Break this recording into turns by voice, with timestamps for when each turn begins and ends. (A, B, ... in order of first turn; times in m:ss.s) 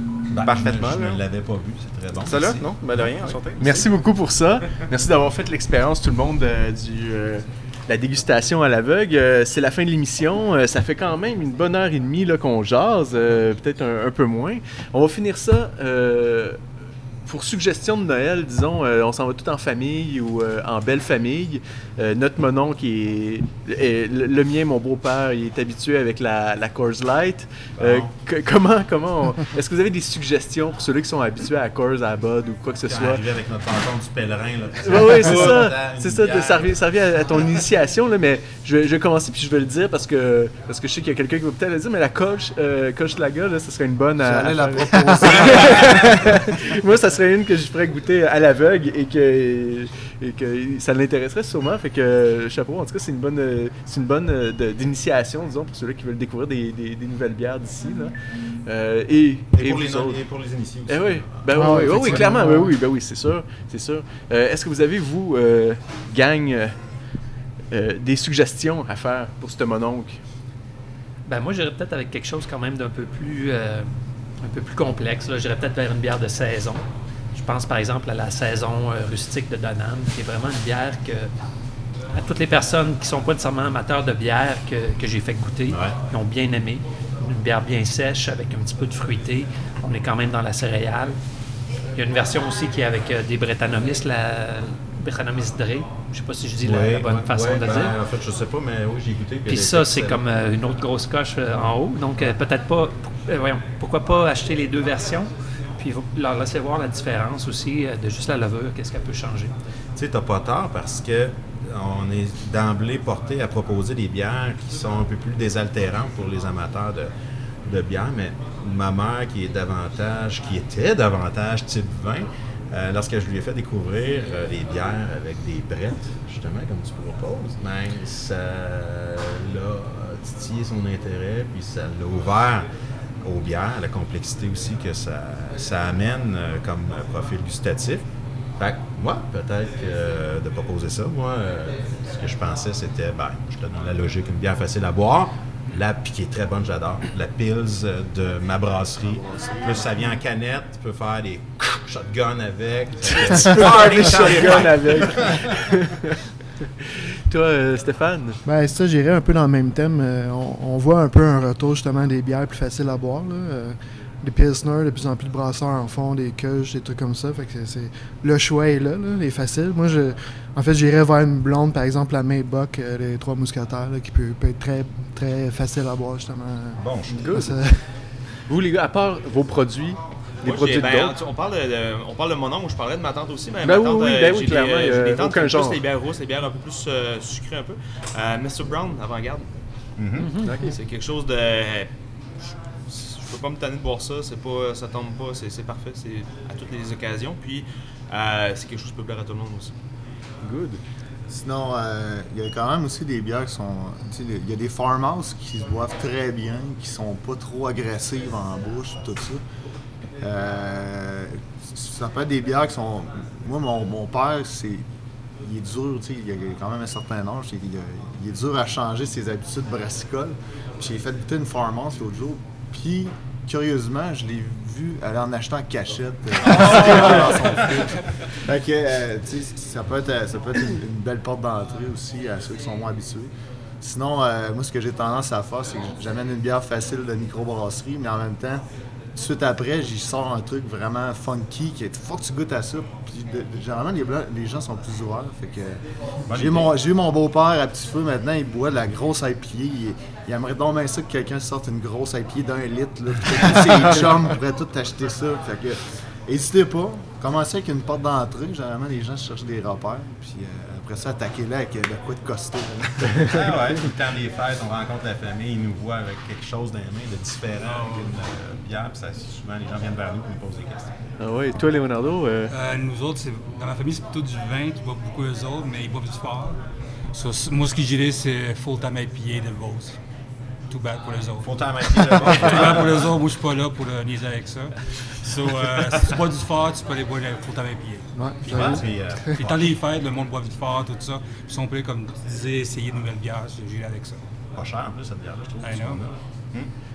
0:00.3-0:01.2 A
0:00.3-0:02.7 B
0:02.2-0:03.9 A
0:03.6-0:16.6 C
0:17.2-0:33.2 C
0:27.8-0:28.1 B
0:32.8-0:36.8 B
0:34.8-0:58.1 C
0:44.2-0:46.4 D
0:44.9-0:45.5 E
0:58.6-1:00.2 C
0:59.5-1:02.2 B
1:00.9-1:06.8 C
1:01.5-1:02.7 E
1:07.7-1:10.2 C
1:11.2-1:21.3 F
1:22.1-1:31.2 F
1:25.7-1:26.0 B
1:31.9-1:38.0 F
1:36.6-1:40.2 B
1:39.5-1:49.5 F
1:50.0-1:57.1 B
1:57.6-2:12.7 B
2:13.2-2:35.8 B
2:29.1-2:29.9 D
2:33.1-2:38.4 C
2:38.4-2:57.8 E
2:56.7-2:57.3 B
2:57.1-2:57.6 C
2:58.5-3:01.2 C
3:00.4-3:09.5 G
3:03.6-3:05.8 C
3:10.0-3:10.3 B
3:10.2-3:10.8 F
3:10.4-3:10.8 C
3:10.7-3:11.9 G
3:12.9-3:19.7 G
3:20.4-3:20.8 C
3:21.3-3:29.4 D
3:30.2-3:34.8 D
3:35.4-4:23.6 D
3:46.6-3:47.5 B
4:06.3-4:06.7 B
4:23.2-4:31.1 B
4:31.2-4:32.5 C
4:32.5-4:36.6 H
4:37.1-4:40.0 H
4:40.7-4:54.2 H
4:41.4-4:43.1 B
4:48.1-4:49.5 E
4:48.4-4:49.5 B
4:54.6-4:56.7 B
4:55.6-4:56.0 H